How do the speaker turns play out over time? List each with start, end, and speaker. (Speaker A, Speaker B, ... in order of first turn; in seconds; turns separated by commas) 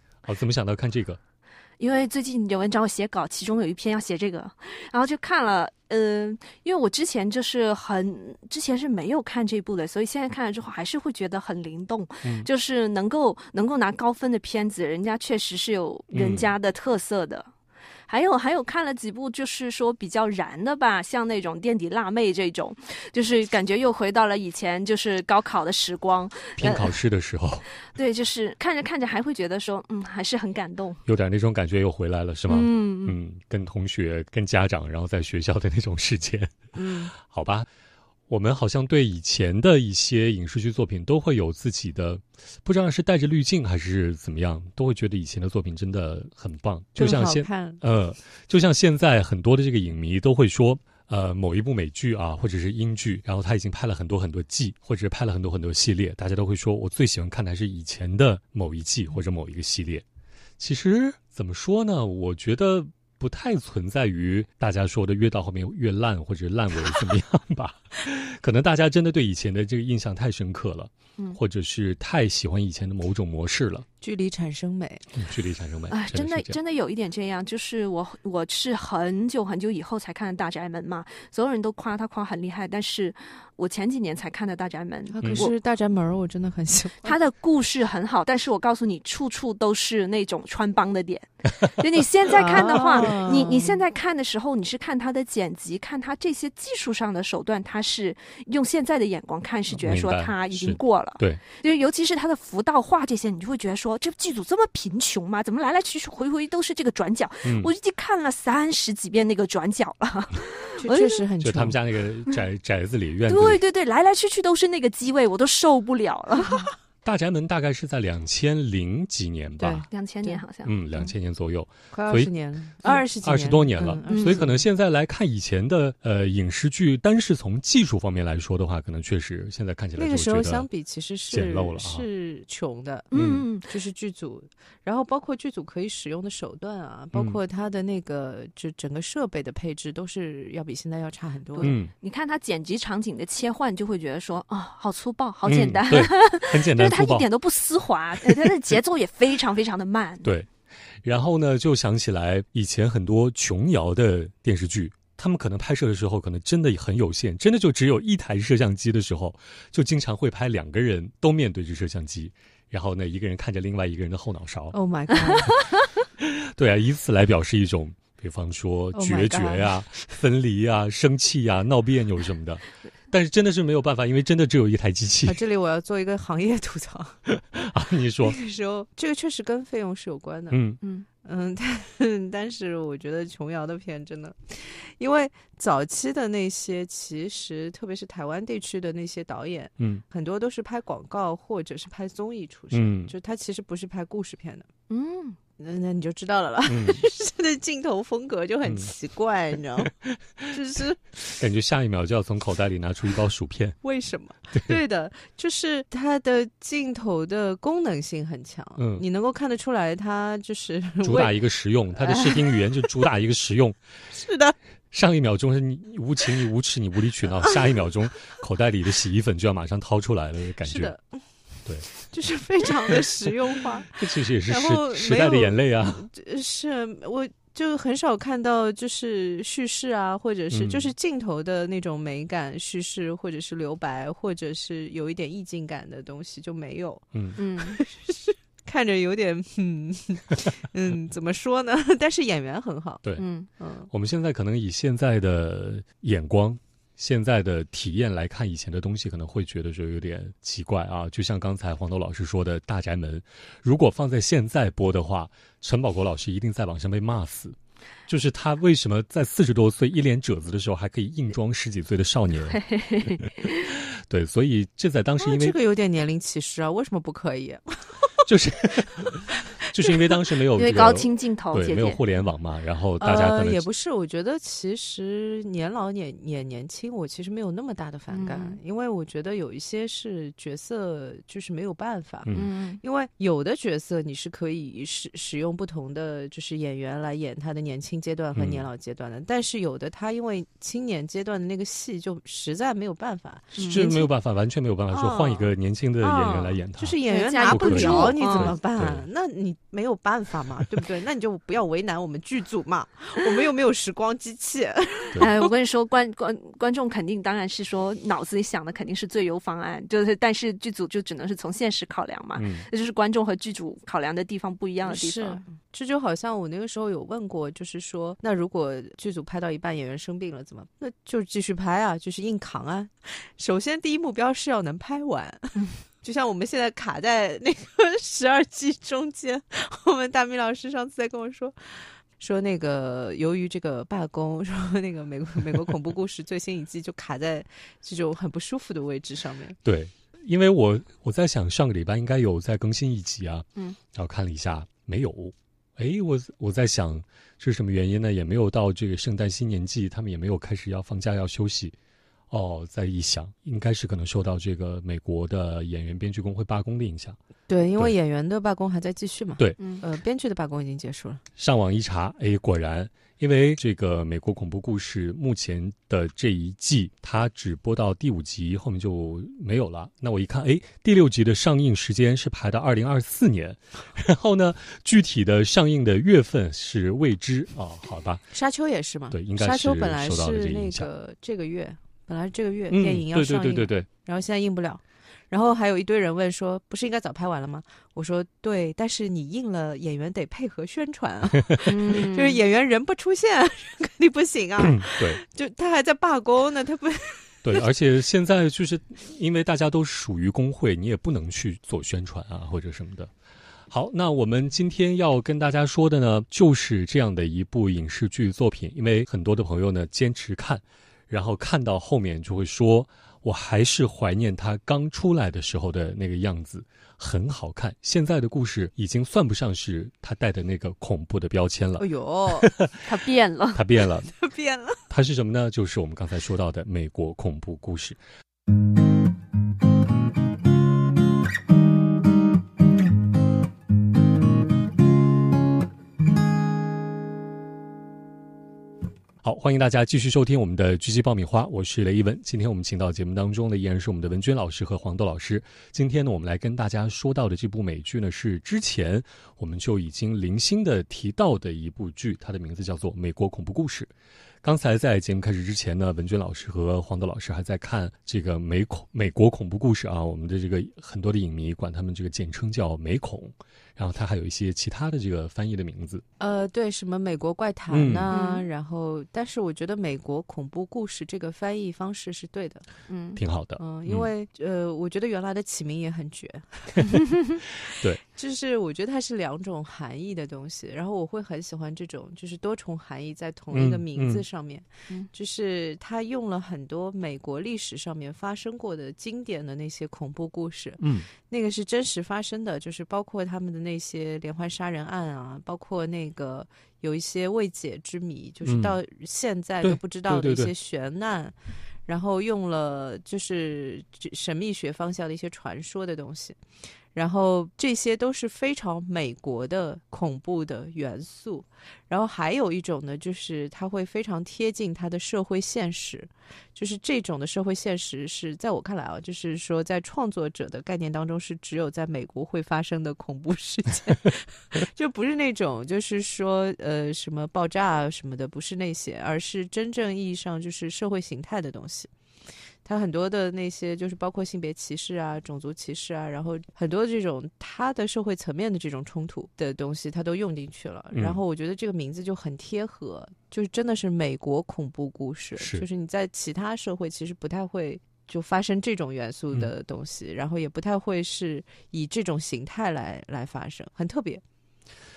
Speaker A: 0.2-1.2, Speaker B: 1.8-17.5, Speaker A: 16.1-16.5, Speaker B: 18.1-27.0, Speaker A: 26.6-27.7, Speaker B: 27.9-31.0, Speaker A: 31.1-37.7, Speaker B: 32.5-33.1, Speaker B: 36.8-37.1, Speaker A: 38.3-60.0, Speaker C: 47.0-47.8, Speaker A: 60.6-73.9, Speaker C: 74.0-75.1, Speaker A: 75.2-76.6, Speaker B: 75.9-85.5, Speaker C: 85.1-87.2, Speaker B: 87.0-111.2, Speaker C: 92.3-93.8, Speaker A: 99.7-101.4, Speaker A: 107.5-107.7, Speaker C: 110.8-111.8, Speaker A: 111.4-113.6, Speaker B: 113.3-116.7, Speaker A: 117.0-119.8, Speaker C: 119.6-120.4, Speaker B: 119.9-121.1, Speaker A: 120.6-122.3, Speaker C: 121.9-124.6, Speaker A: 122.8-130.7, Speaker B: 124.1-124.5, Speaker C: 130.0-141.8, Speaker A: 131.3-132.1, Speaker B: 133.1-133.7, Speaker A: 133.1-133.4, Speaker B: 141.6-150.3, Speaker A: 141.6-141.9, Speaker A: 145.4-147.3, Speaker A: 148.2-148.5, Speaker A: 150.2-150.5, Speaker A: 151.0-164.7, Speaker C: 164.7-165.5, Speaker A: 166.2-175.4, Speaker C: 168.9-170.2, Speaker C: 175.3-177.2, Speaker A: 177.3-178.4, Speaker C: 178.2-180.6, Speaker A: 180.5-180.8, Speaker C: 181.2-194.7, Speaker A: 192.7-193.1, Speaker B: 194.9-195.4, Speaker C: 195.6-199.9, Speaker A: 196.7-197.0, Speaker C: 200.5-201.1, Speaker A: 201.3-203.8, Speaker C: 203.8-211.3, Speaker A: 208.8-209.0, Speaker A: 211.0-213.8, Speaker C: 212.0-212.8, Speaker C: 214.1-214.6, Speaker A: 214.9-220.9, Speaker C: 220.7-221.2, Speaker A: 221.7-221.9, Speaker C: 221.9-237.0, Speaker A: 223.9-226.1, Speaker A: 230.5-230.9, Speaker A: 237.1-237.4, Speaker B: 237.4-237.8, Speaker C: 237.6-243.0, Speaker B: 243.2-243.5, Speaker C: 243.6-243.9, Speaker A: 243.9-265.6, Speaker B: 262.5-263.8, Speaker C: 265.2-268.1, Speaker A: 268.2-273.7, Speaker C: 269.3-269.9, Speaker B: 270.5-272.0, Speaker C: 273.0-294.1, Speaker B: 278.1-278.6, Speaker A: 282.3-282.5, Speaker B: 282.3-282.8, Speaker A: 288.4-288.7, Speaker A: 293.7-299.1, Speaker C: 294.9-295.5, Speaker C: 296.0-305.5, Speaker B: 297.1-298.6, Speaker B: 305.2-315.4, Speaker A: 312.4-312.7, Speaker C: 314.9-339.6, Speaker A: 339.6-351.7, Speaker A: 352.3-357.2, Speaker C: 357.5-361.2, Speaker A: 361.4-378.2, Speaker C: 378.3-397.6, Speaker A: 379.1-380.9, Speaker A: 382.7-383.9, Speaker B: 391.6-392.4, Speaker A: 394.6-395.2, Speaker A: 397.4-403.1, Speaker A: 403.7-422.9, Speaker C: 421.8-422.5, Speaker B: 422.9-423.6, Speaker A: 423.5-424.1, Speaker C: 424.2-424.8, Speaker A: 424.9-428.0, Speaker A: 439.2-453.9, Speaker A: 454.4-466.0, Speaker C: 466.2-472.6, Speaker A: 467.7-468.1, Speaker B: 468.1-468.5, Speaker B: 472.9-473.2, Speaker A: 473.2-474.1, Speaker C: 473.6-477.0, Speaker A: 477.7-478.0, Speaker C: 478.1-501.3, Speaker A: 483.5-484.2, Speaker A: 490.8-491.1, Speaker A: 498.4-498.8, Speaker A: 499.6-500.5, Speaker C: 501.9-506.4, Speaker C: 506.9-531.9, Speaker C: 532.6-554.2, Speaker A: 540.9-541.2, Speaker A: 545.4-545.6